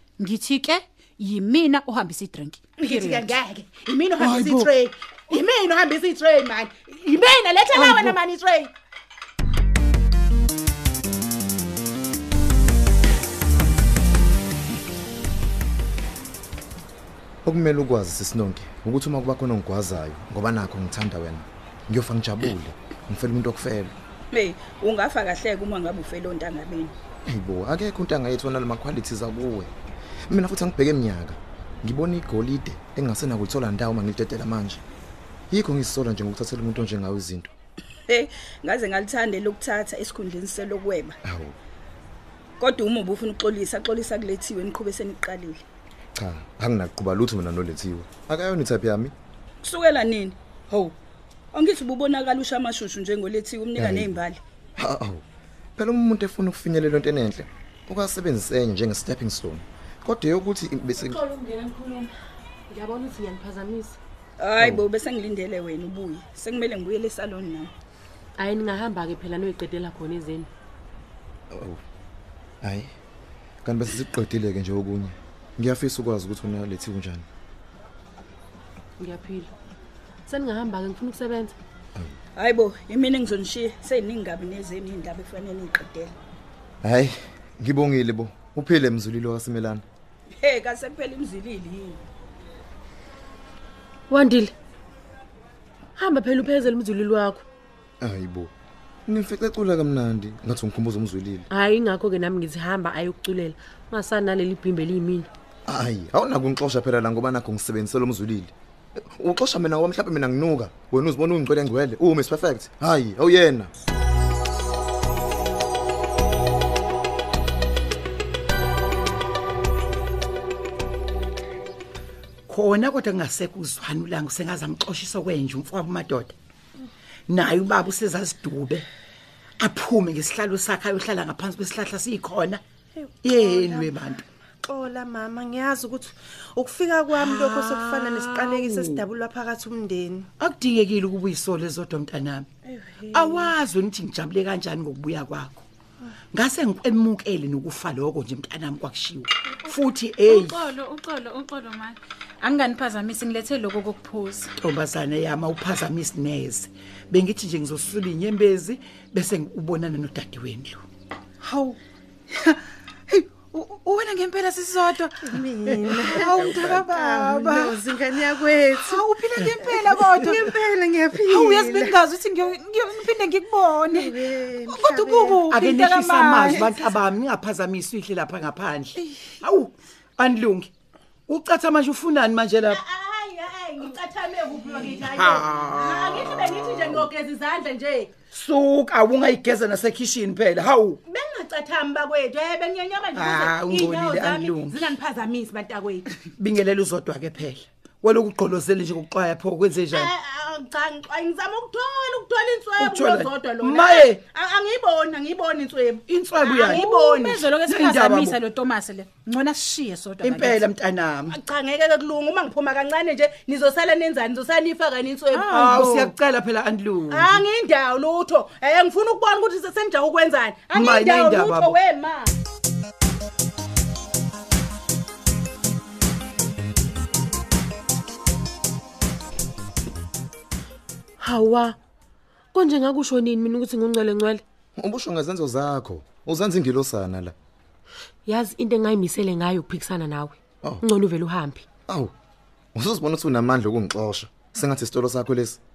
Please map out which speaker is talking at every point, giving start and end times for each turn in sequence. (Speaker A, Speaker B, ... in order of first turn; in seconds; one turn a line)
Speaker A: 0.2-3.3
Speaker B: 2.8-8.7
Speaker C: 17.4-23.9
Speaker D: 24.3-26.9
Speaker C: 27.3-29.7
Speaker C: 30.3-34.8
Speaker C: 35.5-37.5
Speaker D: 38.1-41.1
Speaker C: 41.2-41.5
Speaker D: 42.6-45.6
Speaker C: 46.1-49.1
Speaker D: 49.6-50.9
Speaker D: 51.5-54.4
Speaker C: 53.8-54.2
Speaker C: 54.8-55.2
Speaker C: 55.8-61.2
Speaker E: 61.0-62.1
Speaker E: 62.7-64.0
Speaker D: 64.4-67.7
Speaker C: 64.6-64.8
Speaker E: 68.4-70.5
Speaker C: 71.5-71.8
Speaker C: 72.6-72.9
Speaker C: 73.6-77.2
Speaker E: 79.0-79.5
Speaker E: 80.3-81.6
Speaker D: 82.3-86.1
Speaker C: 86.8-89.8
Speaker D: 90.4-92.0
Speaker E: 94.1-94.5
Speaker E: 96.0-97.4
Speaker C: 98.0-98.5
Speaker C: 99.1-101.4
Speaker E: 101.5-105.3
Speaker C: 105.7-113.7
Speaker F: 122.5-126.3
Speaker F: 127.3-128.8
Speaker F: 129.6-132.6
Speaker G: 133.0-133.9
Speaker F: 133.2-134.2
Speaker G: 134.6-140.2
Speaker F: 137.1-139.0
Speaker F: 140.4-142.5
Speaker G: 142.7-143.3
Speaker F: 143.1-145.6
Speaker F: 146.3-150.7
Speaker A: 150.2-154.5
Speaker F: 154.6-160.8
Speaker A: 161.4-161.8
Speaker A: 163.1-167.9
Speaker G: 165.3-169.0
Speaker F: 166.4-166.8
Speaker A: 168.6-170.5
Speaker G: 170.2-171.9
Speaker A: 171.1-176.9
Speaker G: 173.9-175.4
Speaker F: 175.4-180.7
Speaker F: 181.3-182.8
Speaker B: 182.7-188.1
Speaker F: 185.2-185.7
Speaker F: 188.3-191.0
Speaker B: 191.1-196.1
Speaker F: 193.1-194.9
Speaker F: 196.4-200.1
Speaker B: 199.9-207.4
Speaker F: 202.8-204.2
Speaker F: 206.1-206.8
Speaker A: 206.6-210.6
Speaker F: 207.5-208.4
Speaker F: 210.2-211.4
Speaker B: 211.3-215.5
Speaker A: 215.3-216.1
Speaker F: 215.5-217.4
Speaker B: 217.1-222.3
Speaker F: 220.7-221.7
Speaker E: 231.2-231.8
Speaker E: 232.5-234.4
Speaker C: 234.8-237.3
Speaker E: 238.2-241.7
Speaker C: 240.6-240.9
Speaker C: 241.9-242.1
Speaker C: 242.8-245.6